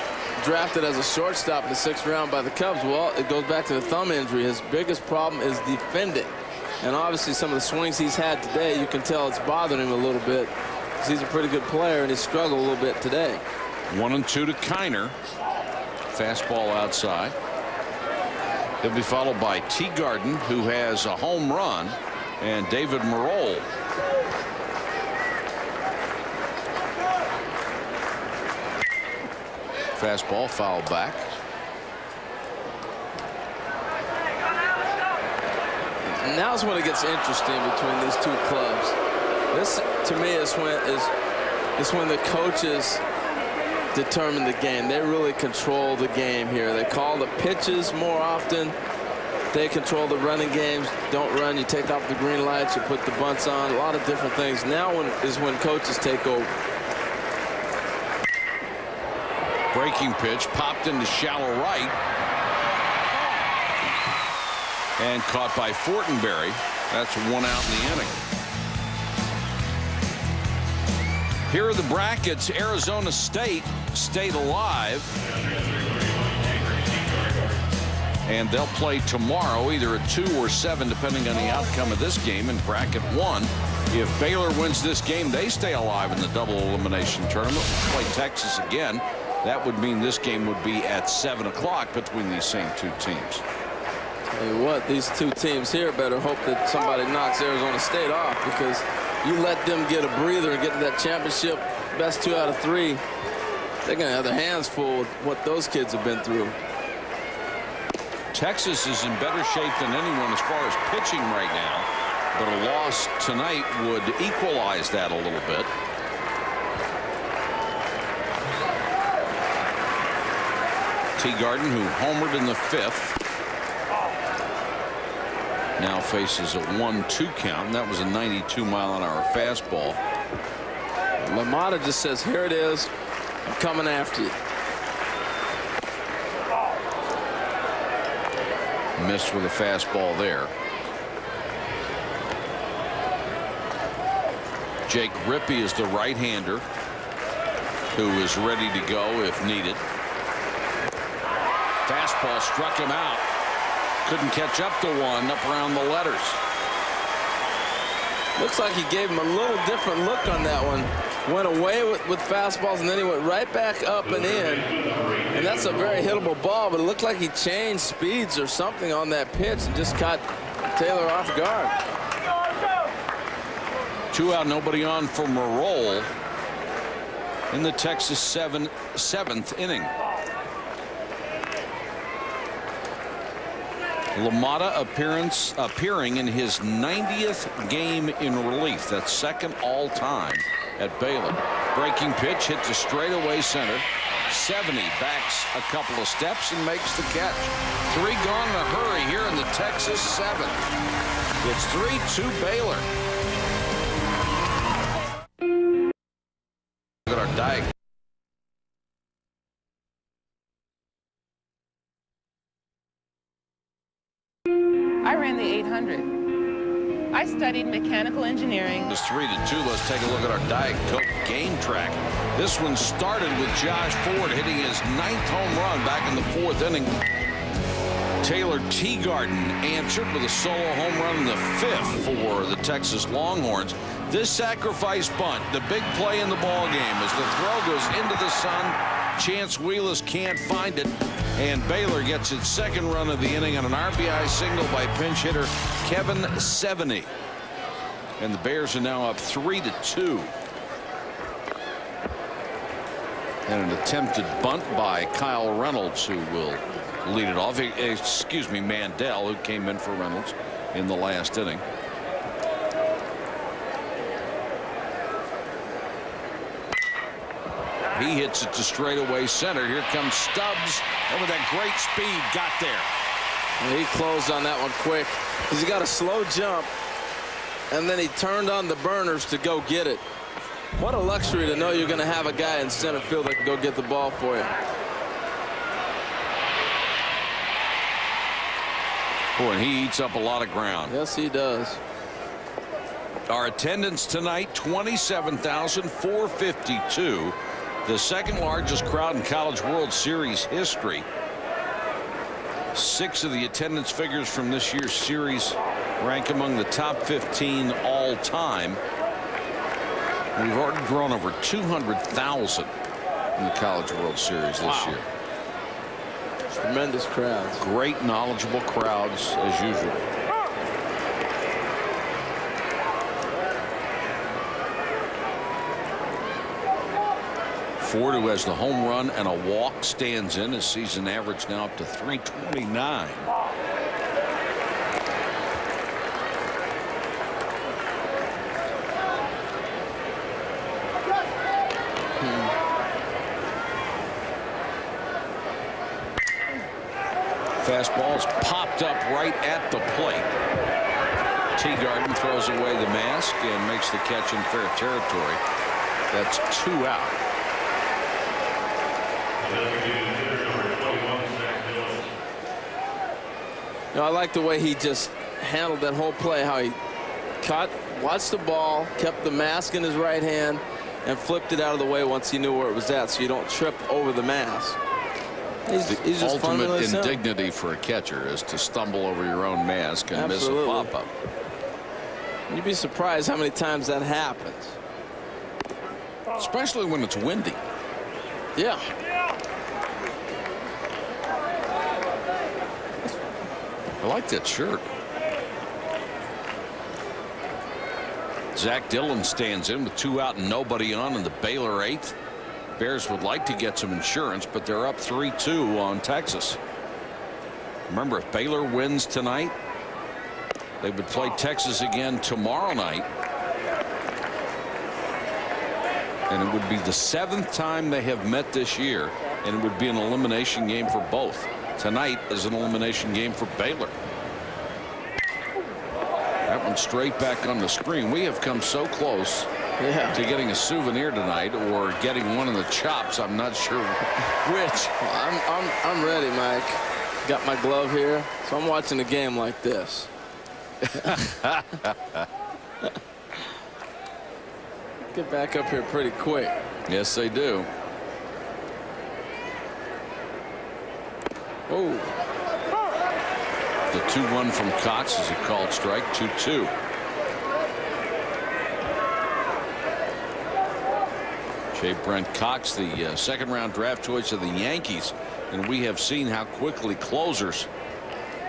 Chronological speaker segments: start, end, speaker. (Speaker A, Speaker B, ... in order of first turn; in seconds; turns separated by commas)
Speaker A: 0.4-13.4, Speaker B: 13.9-15.2, Speaker B: 16.1-17.4, Speaker B: 18.8-23.7, Speaker B: 30.0-31.3, Speaker A: 36.0-39.0, Speaker A: 39.5-41.1, Speaker A: 41.8-43.0, Speaker A: 43.9-48.8, Speaker A: 49.5-56.5, Speaker B: 59.7-62.0, Speaker B: 65.0-68.2, Speaker B: 71.5-75.2, Speaker B: 78.3-93.4, Speaker A: 94.3-103.0, Speaker A: 103.8-106.6, Speaker B: 108.3-115.7, Speaker B: 121.2-123.2, Speaker B: 125.8-130.0, Speaker A: 131.2-132.9, Speaker A: 133.4-134.3, Speaker B: 139.0-140.5, Speaker B: 144.9-146.7, Speaker B: 147.9-149.8, Speaker B: 151.9-153.2, Speaker B: 154.1-156.4, Speaker A: 158.4-164.7, Speaker A: 165.3-171.8, Speaker B: 174.1-176.1, Speaker B: 177.5-179.9, Speaker B: 184.2-200.7, Speaker B: 201.4-202.9, Speaker B: 207.1-207.7, Speaker C: 215.0-216.2, Speaker C: 217.1-218.9, Speaker B: 218.8-227.0, Speaker B: 228.2-247.1, Speaker B: 248.2-250.3, Speaker B: 253.5-261.6, Speaker B: 267.9-272.9, Speaker A: 273.6-276.7, Speaker A: 277.7-280.0, Speaker A: 280.8-284.5, Speaker B: 289.4-290.9, Speaker A: 290.9-291.8, Speaker B: 293.3-301.1, Speaker B: 302.7-308.8, Speaker B: 310.4-312.7, Speaker B: 313.4-315.1, Speaker A: 314.6-315.0, Speaker A: 316.5-317.6, Speaker B: 317.6-320.1, Speaker B: 327.8-333.3, Speaker A: 342.2-342.5, Speaker B: 347.6-350.3, Speaker B: 351.6-355.4, Speaker B: 356.1-357.2, Speaker B: 360.6-361.9, Speaker A: 363.9-366.8, Speaker A: 367.4-374.8, Speaker A: 375.7-377.2, Speaker B: 375.8-381.1, Speaker A: 380.1-380.9, Speaker A: 382.5-384.8, Speaker B: 386.4-387.6, Speaker A: 388.6-388.9, Speaker B: 394.0-394.9, Speaker B: 398.5-402.2, Speaker B: 402.8-406.6, Speaker B: 407.9-409.6, Speaker B: 410.8-413.1, Speaker B: 416.3-423.9, Speaker B: 426.4-429.5, Speaker A: 429.8-430.2, Speaker B: 430.1-434.1, Speaker A: 434.4-440.1, Speaker B: 440.8-442.3, Speaker A: 445.1-446.6, Speaker B: 446.9-447.7, Speaker A: 451.7-452.2, Speaker B: 453.9-456.7, Speaker B: 461.7-467.7